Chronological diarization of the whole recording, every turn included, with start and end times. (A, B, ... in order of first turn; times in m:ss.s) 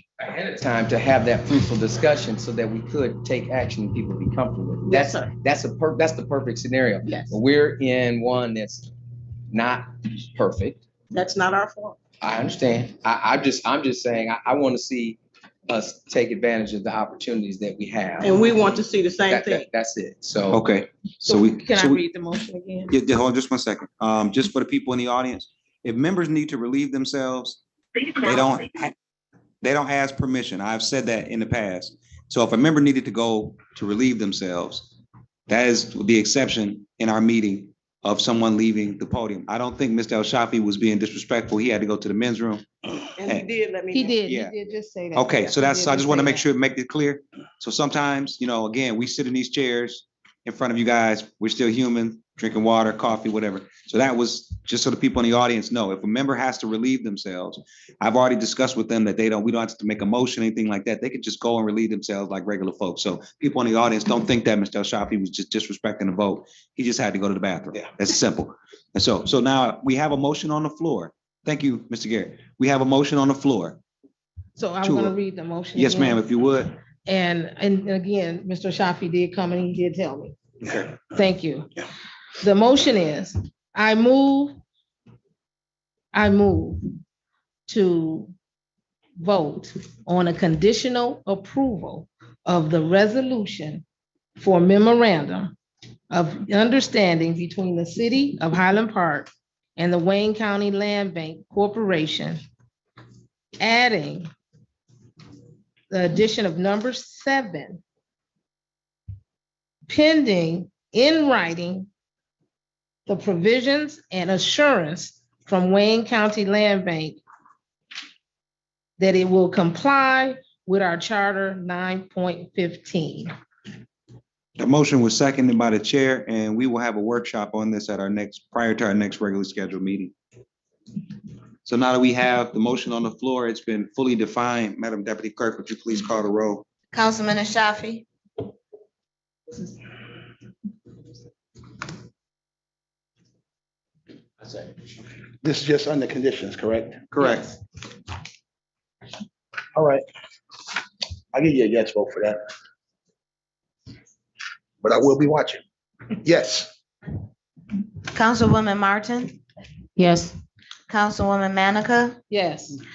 0:00.2-0:08.9 A
0:04.9-0:05.3 B
0:07.0-0:07.4 B
0:09.5-0:10.8 A
0:11.1-0:12.0 B
0:12.2-0:18.4 A
0:18.2-0:19.7 B
0:19.3-0:20.6 A
0:20.5-0:22.0 C
0:21.3-0:22.9 D
0:22.9-0:28.9 C
0:29.6-0:34.9 C
0:35.5-0:42.7 C
0:43.2-0:44.2 B
0:43.9-0:46.5 D
0:44.2-0:44.5 C
0:45.2-1:13.8 C
1:14.6-1:16.2 D
1:14.8-1:15.2 C
1:15.8-1:16.7 C
1:17.1-1:21.7 D
1:22.4-1:24.6 D
1:26.1-1:26.9 D
1:27.7-1:28.3 D
1:29.2-1:33.8 D
1:34.4-1:35.6 D
1:36.1-1:42.4 D
1:43.6-1:44.3 D
1:45.9-1:47.8 D
1:49.9-1:51.9 D
1:53.1-1:57.2 D
1:59.0-2:03.3 D
2:04.6-2:10.1 C
2:11.6-2:16.7 C
2:16.9-2:18.0 E
2:25.4-2:27.0 F
2:27.1-2:27.5 C
2:29.8-2:30.0 F
2:31.3-2:32.4 F
2:34.8-2:35.6 F
2:36.2-2:36.7 F
2:38.1-2:39.3 E
2:40.9-2:42.2 E
2:42.3-2:42.8 D